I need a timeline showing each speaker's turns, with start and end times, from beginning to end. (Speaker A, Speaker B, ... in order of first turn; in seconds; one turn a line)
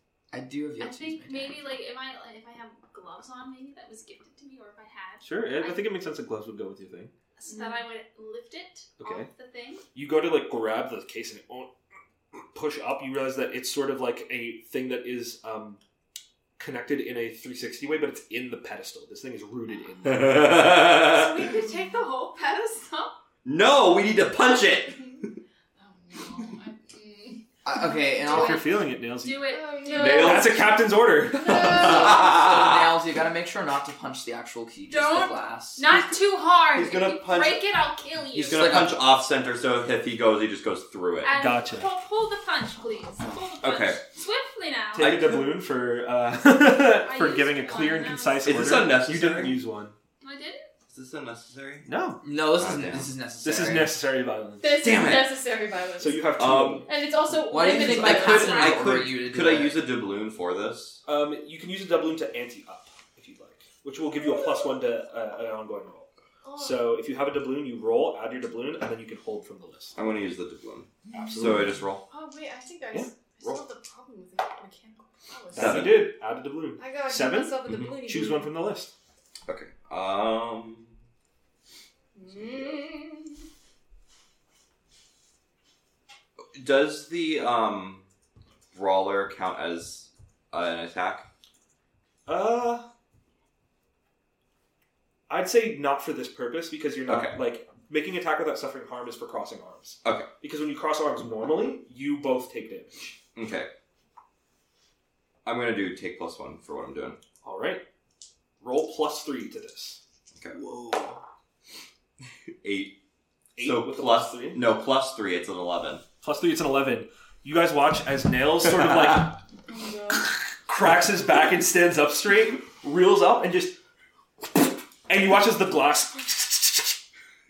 Speaker A: 0.3-1.6
Speaker B: 0.8-5.8
Speaker C: 5.2-7.1
Speaker B: 7.4-9.8
Speaker C: 9.0-9.3
Speaker C: 9.9-11.7
Speaker C: 12.3-15.8
Speaker C: 16.6-20.9
Speaker D: 20.0-21.4
Speaker B: 21.0-23.2
Speaker D: 23.4-25.4
Speaker E: 25.8-27.8
Speaker A: 27.6-28.6
Speaker C: 28.3-32.0
Speaker B: 28.3-30.4
Speaker E: 29.5-30.5
Speaker D: 29.9-30.4
Speaker E: 31.3-32.3
Speaker A: 31.5-35.9
Speaker D: 31.6-32.8
Speaker B: 34.9-38.9
Speaker D: 36.7-37.6
Speaker D: 38.3-41.3
Speaker A: 38.4-38.9
Speaker B: 41.2-45.1
Speaker C: 41.3-41.9
Speaker D: 43.6-44.0
Speaker C: 44.9-50.0
Speaker D: 45.0-45.5
Speaker B: 47.0-48.6
Speaker D: 48.4-49.6
Speaker B: 50.2-50.7
Speaker D: 50.9-51.9
Speaker C: 51.8-52.2
Speaker A: 52.2-53.9
Speaker D: 52.5-53.1
Speaker C: 53.4-54.8
Speaker E: 54.6-56.3
Speaker D: 54.8-55.3
Speaker C: 56.0-56.9
Speaker D: 56.4-56.9
Speaker E: 56.8-58.9
Speaker A: 57.3-59.8
Speaker D: 57.7-61.0
Speaker C: 61.0-70.0
Speaker E: 66.4-66.8
Speaker D: 70.0-72.0
Speaker C: 71.1-71.8
Speaker E: 72.1-76.0
Speaker C: 72.9-73.7
Speaker C: 75.5-78.9
Speaker D: 75.5-76.1
Speaker E: 76.8-78.5
Speaker D: 79.5-80.9
Speaker E: 82.1-83.4
Speaker D: 82.3-82.9
Speaker D: 86.5-88.0
Speaker D: 88.7-91.3
Speaker C: 92.2-92.9
Speaker C: 95.3-103.2
Speaker D: 97.1-97.4
Speaker D: 100.0-100.3
Speaker D: 103.3-103.7
Speaker D: 105.4-107.2
Speaker C: 107.4-107.8
Speaker C: 108.6-110.0
Speaker A: 110.5-111.2
Speaker D: 112.6-113.0
Speaker C: 113.6-114.6
Speaker D: 113.6-116.0
Speaker C: 116.2-119.4
Speaker E: 119.7-120.4
Speaker C: 120.2-123.8
Speaker C: 124.4-127.0